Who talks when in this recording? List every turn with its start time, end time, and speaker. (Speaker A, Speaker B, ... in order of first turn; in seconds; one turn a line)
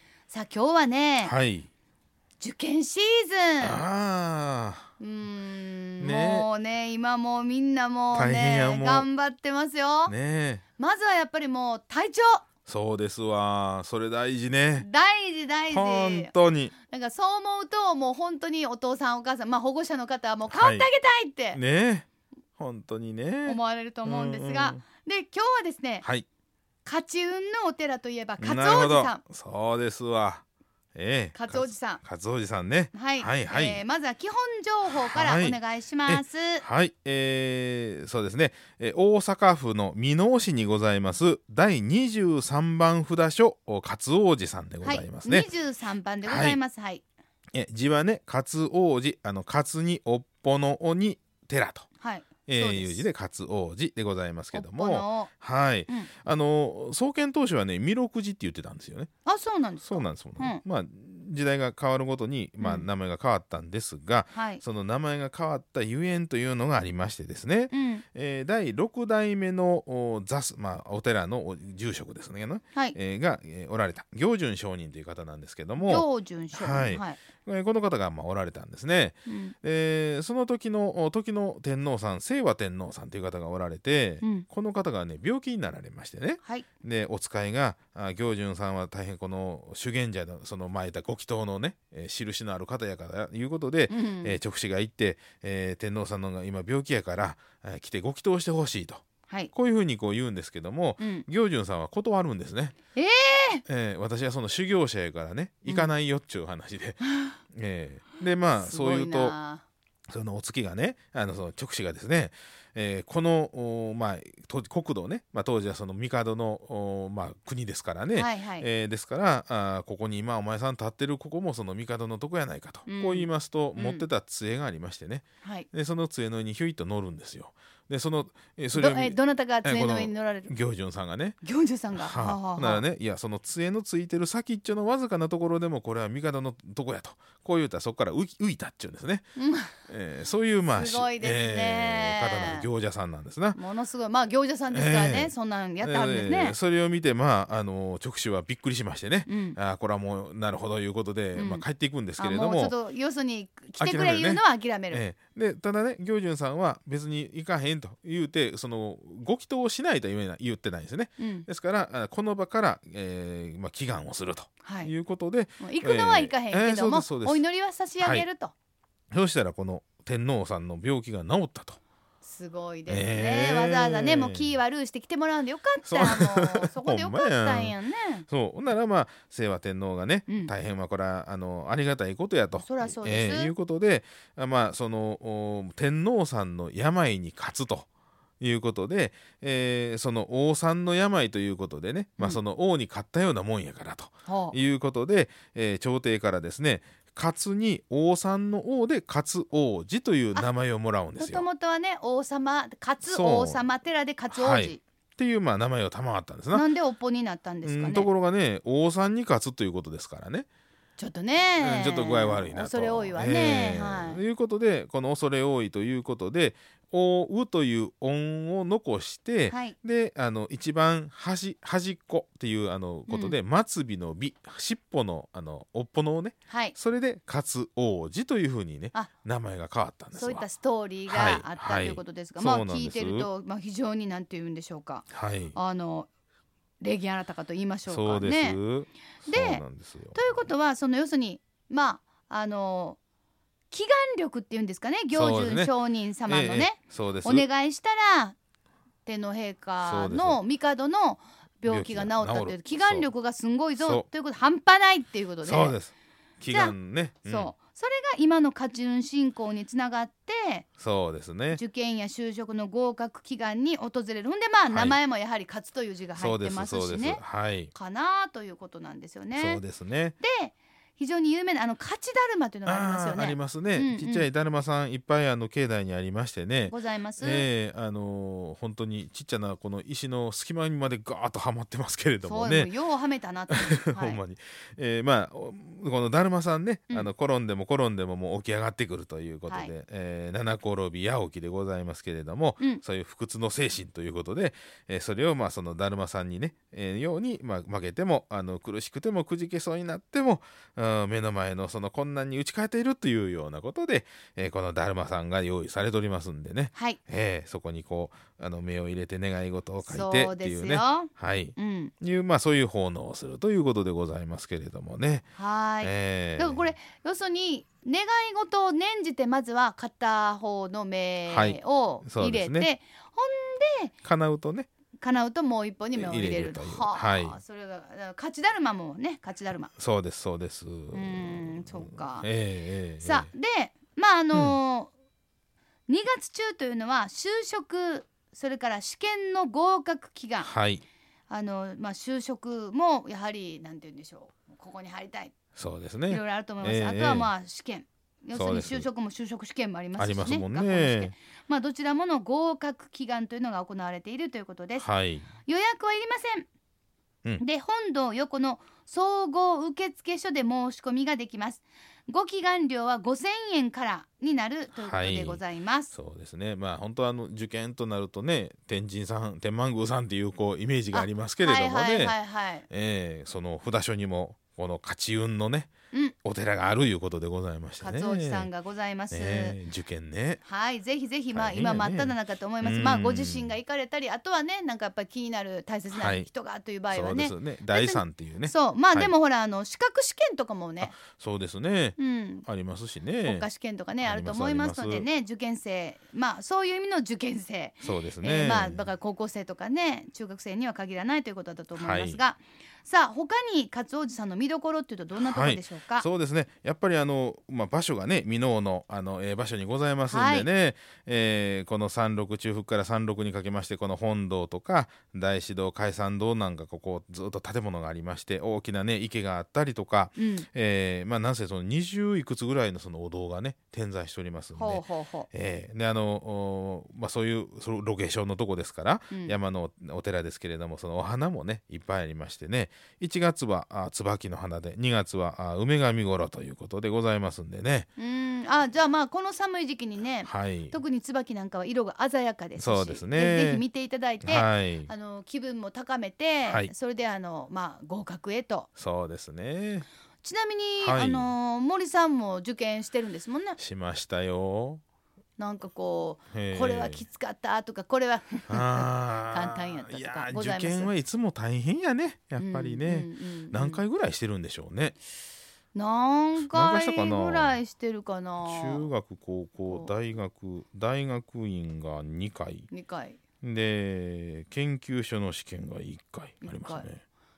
Speaker A: 0.3-1.3
Speaker B: 1.2-1.7
Speaker A: 2.4-3.8
Speaker B: 3.6-4.9
Speaker A: 5.0-10.2
Speaker B: 6.0-6.5
Speaker B: 8.1-9.1
Speaker B: 10.1-10.6
Speaker A: 10.8-12.4
Speaker B: 12.7-14.9
Speaker A: 14.8-16.3
Speaker B: 15.7-16.8
Speaker A: 16.9-21.6
Speaker B: 20.5-20.9
Speaker B: 21.5-22.1
Speaker B: 22.6-24.8
Speaker A: 23.5-26.1
Speaker A: 26.9-29.2
Speaker B: 28.4-33.8
Speaker A: 31.3-32.0
Speaker A: 32.9-36.6
Speaker B: 34.9-45.5
Speaker A: 44.8-47.0
Speaker B: 46.2-46.6
Speaker B: 47.5-51.9
Speaker A: 52.0-53.0
Speaker B: 52.5-59.1
Speaker A: 54.5-55.3
Speaker A: 59.2-60.6
Speaker B: 59.8-102.8
Speaker A: 62.6-62.9
Speaker A: 64.3-64.6
Speaker A: 67.7-68.0
Speaker A: 75.8-77.2
Speaker A: 79.3-79.5
Speaker A: 84.2-84.5
Speaker A: 86.4-86.7
Speaker A: 93.9-94.4
Speaker A: 101.0-101.3
Speaker A: 103.0-103.6
Speaker B: 103.7-107.0
Speaker A: 107.0-107.3
Speaker B: 107.5-109.4
Speaker A: 108.6-109.6
Speaker B: 110.1-139.3
Speaker A: 118.1-118.7
Speaker A: 122.9-124.1
Speaker A: 125.4-125.7
Speaker A: 128.7-130.5
Speaker A: 131.4-132.8
Speaker A: 139.4-139.7
Speaker B: 139.9-143.6
Speaker A: 140.7-142.7
Speaker A: 143.6-146.6
Speaker B: 144.7-152.8
Speaker A: 149.3-149.6
Speaker A: 151.4-151.6
Speaker A: 152.2-155.0
Speaker B: 153.8-167.4
Speaker A: 161.2-161.5
Speaker A: 164.6-164.9
Speaker A: 165.6-168.5
Speaker B: 168.0-168.3
Speaker B: 169.1-171.8
Speaker A: 172.2-178.3
Speaker B: 172.9-174.5
Speaker B: 175.8-177.8
Speaker B: 178.3-187.9
Speaker A: 182.6-183.5
Speaker B: 188.4-201.4
Speaker A: 194.3-194.6
Speaker A: 201.2-204.8
Speaker B: 203.0-203.6
Speaker B: 204.3-206.7
Speaker A: 206.5-208.1
Speaker B: 207.7-210.5
Speaker A: 211.0-214.2
Speaker B: 211.6-230.5
Speaker A: 219.5-219.8
Speaker A: 223.1-223.4
Speaker A: 226.5-226.8
Speaker A: 230.2-236.1
Speaker B: 231.1-233.3
Speaker B: 235.1-235.6
Speaker A: 236.8-238.6
Speaker B: 237.9-240.4
Speaker A: 239.2-243.0
Speaker A: 243.7-248.4
Speaker B: 245.1-245.7
Speaker B: 246.3-247.5
Speaker A: 249.1-255.8
Speaker B: 249.8-250.4
Speaker B: 251.7-253.1
Speaker B: 253.8-254.1
Speaker B: 255.4-257.5
Speaker A: 256.5-256.8
Speaker A: 257.3-260.7
Speaker B: 260.8-261.6
Speaker A: 261.5-269.6
Speaker B: 264.7-265.0
Speaker B: 266.2-267.7
Speaker B: 269.3-270.2
Speaker A: 270.2-274.3
Speaker B: 272.7-282.7
Speaker A: 276.7-277.5
Speaker A: 282.2-284.2
Speaker B: 283.5-315.3
Speaker A: 289.5-289.7
Speaker A: 306.8-307.0
Speaker A: 309.9-311.9
Speaker A: 315.4-323.9
Speaker B: 315.8-316.7
Speaker B: 321.3-322.7
Speaker B: 324.0-324.7
Speaker A: 325.0-329.7
Speaker B: 325.9-327.4
Speaker B: 329.8-333.3
Speaker A: 330.9-332.3
Speaker A: 333.0-334.9
Speaker A: 335.9-340.5
Speaker B: 340.4-340.8
Speaker A: 341.3-345.4
Speaker B: 345.6-347.3
Speaker A: 346.1-356.5
Speaker B: 348.3-348.9
Speaker B: 350.0-351.1
Speaker B: 354.8-355.3
Speaker A: 357.4-365.9
Speaker B: 364.8-372.2
Speaker A: 370.9-372.7
Speaker B: 372.7-375.7
Speaker B: 376.2-378.5
Speaker A: 377.8-379.6
Speaker B: 379.1-380.4
Speaker A: 380.4-391.0
Speaker B: 381.3-383.5
Speaker B: 385.9-386.3
Speaker B: 386.9-389.1
Speaker B: 390.8-393.5
Speaker A: 392.0-392.5
Speaker A: 393.2-406.1
Speaker B: 394.0-395.1
Speaker B: 397.8-398.8
Speaker B: 401.8-402.2
Speaker B: 405.1-437.9
Speaker A: 410.1-410.5
Speaker A: 420.2-420.5
Speaker A: 424.6-425.3
Speaker A: 429.1-429.4
Speaker A: 438.0-448.7
Speaker B: 440.2-440.8
Speaker B: 442.6-443.6
Speaker B: 444.2-444.9
Speaker B: 446.4-446.7
Speaker B: 448.8-449.9
Speaker A: 450.2-453.6
Speaker B: 450.8-451.3
Speaker B: 453.6-454.8
Speaker A: 455.4-460.9
Speaker B: 456.3-457.0
Speaker B: 458.5-465.0
Speaker A: 462.4-463.8
Speaker A: 465.7-468.9
Speaker B: 466.4-467.6
Speaker B: 468.4-472.7
Speaker A: 472.7-473.2
Speaker B: 473.4-477.0
Speaker A: 476.4-476.9